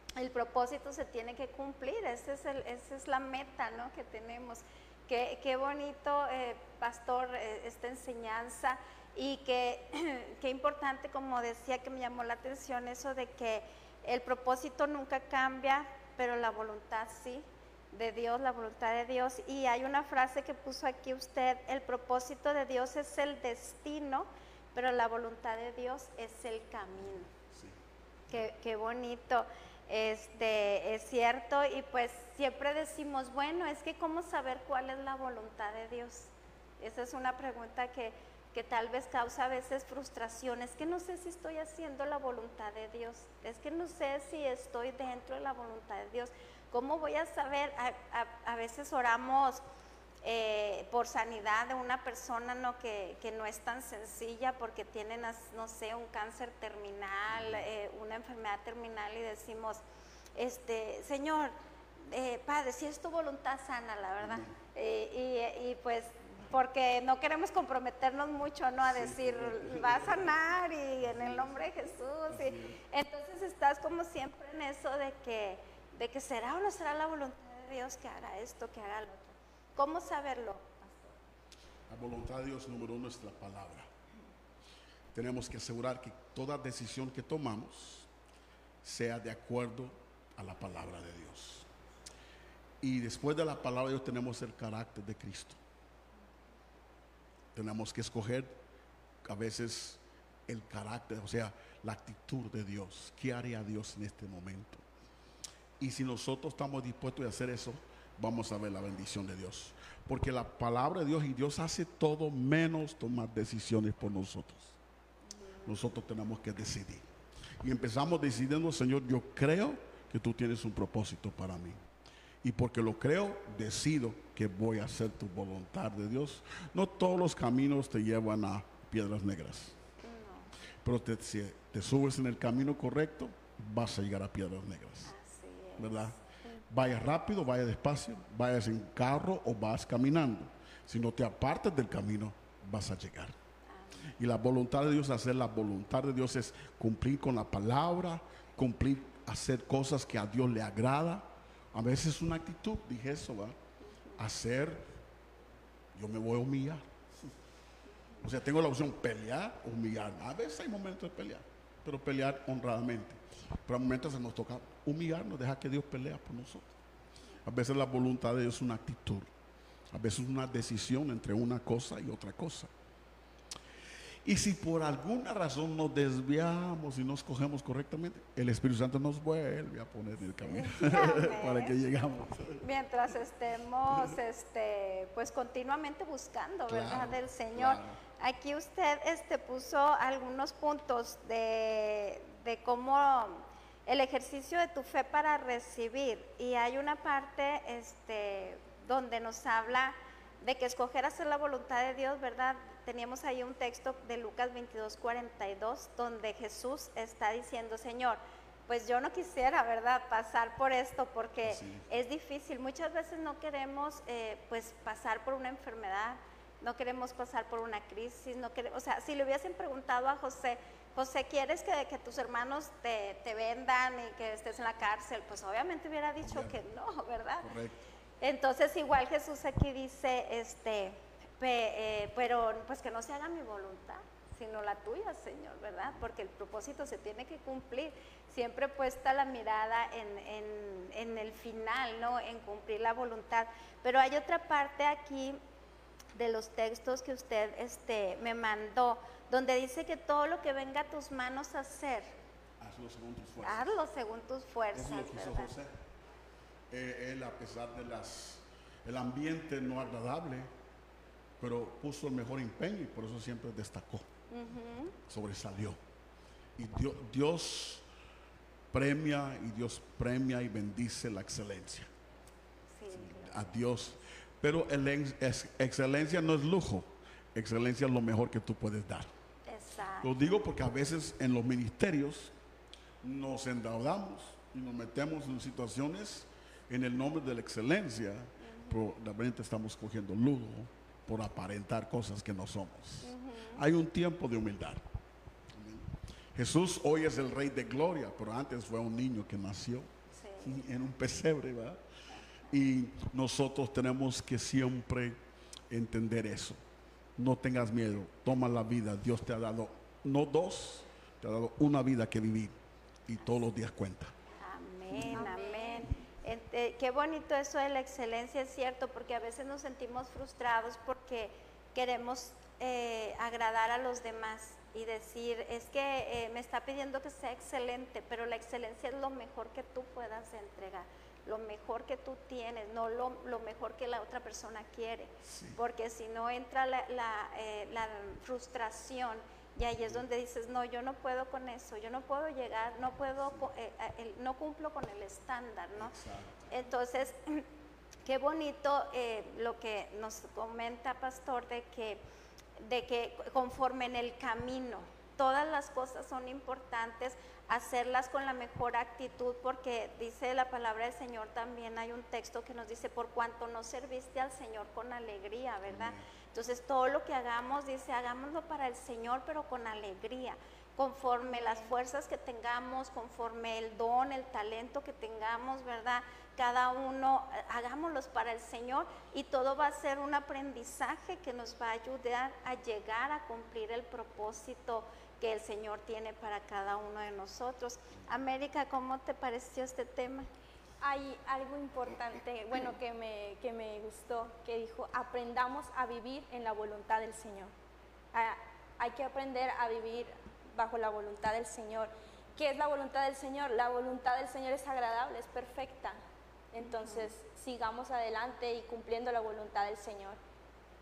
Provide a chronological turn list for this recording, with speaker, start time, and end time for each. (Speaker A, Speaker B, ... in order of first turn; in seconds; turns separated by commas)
Speaker A: 0.1-27.3, Speaker B: 27.5-27.8, Speaker A: 28.3-49.6, Speaker A: 50.2-59.8, Speaker B: 57.3-57.6, Speaker A: 60.4-61.5, Speaker A: 62.1-81.2, Speaker B: 64.2-64.5, Speaker B: 68.8-70.3, Speaker B: 71.0-71.6, Speaker B: 72.3-72.8, Speaker B: 81.9-83.9, Speaker B: 85.1-88.1, Speaker B: 88.8-91.7, Speaker B: 92.8-95.6, Speaker B: 97.5-98.5, Speaker B: 99.2-104.8, Speaker B: 105.8-114.8, Speaker B: 115.6-117.0, Speaker B: 117.6-121.8, Speaker B: 122.4-129.8, Speaker A: 130.0-130.5, Speaker B: 130.8-135.1, Speaker A: 135.0-136.2, Speaker B: 135.8-136.2, Speaker B: 136.7-143.3, Speaker A: 143.7-144.1, Speaker B: 144.2-153.6, Speaker A: 153.9-154.2, Speaker B: 154.2-154.8, Speaker B: 155.9-156.9, Speaker B: 158.2-166.7, Speaker B: 167.4-169.3, Speaker B: 169.9-172.7, Speaker B: 174.2-182.6, Speaker A: 180.4-181.7, Speaker A: 182.6-227.5, Speaker B: 186.7-188.0, Speaker B: 211.4-211.8, Speaker B: 226.2-226.6, Speaker B: 227.4-227.8, Speaker A: 228.2-245.4, Speaker A: 246.1-252.1, Speaker B: 252.6-253.8, Speaker A: 253.4-255.5, Speaker B: 254.7-255.7, Speaker B: 256.7-260.5, Speaker B: 261.4-264.1, Speaker A: 264.3-264.9, Speaker B: 265.1-265.8, Speaker B: 266.6-267.9, Speaker B: 268.7-271.9, Speaker A: 272.7-273.6, Speaker B: 272.9-279.1, Speaker A: 279.5-280.1, Speaker B: 280.0-282.3, Speaker B: 283.0-294.8, Speaker A: 288.4-288.8, Speaker A: 293.0-293.6, Speaker B: 295.5-301.8, Speaker A: 300.1-300.6, Speaker B: 302.5-305.2, Speaker B: 305.7-306.6, Speaker B: 307.2-312.5, Speaker B: 313.1-314.1, Speaker A: 314.4-345.9, Speaker B: 314.9-315.3, Speaker C: 315.1-315.9, Speaker B: 335.2-335.6, Speaker B: 345.8-346.5, Speaker A: 346.5-347.4, Speaker A: 348.0-352.0, Speaker A: 352.6-390.3, Speaker B: 365.6-366.1, Speaker C: 371.2-371.7, Speaker C: 390.8-397.5, Speaker C: 398.1-406.0, Speaker C: 406.5-410.2, Speaker A: 406.6-407.1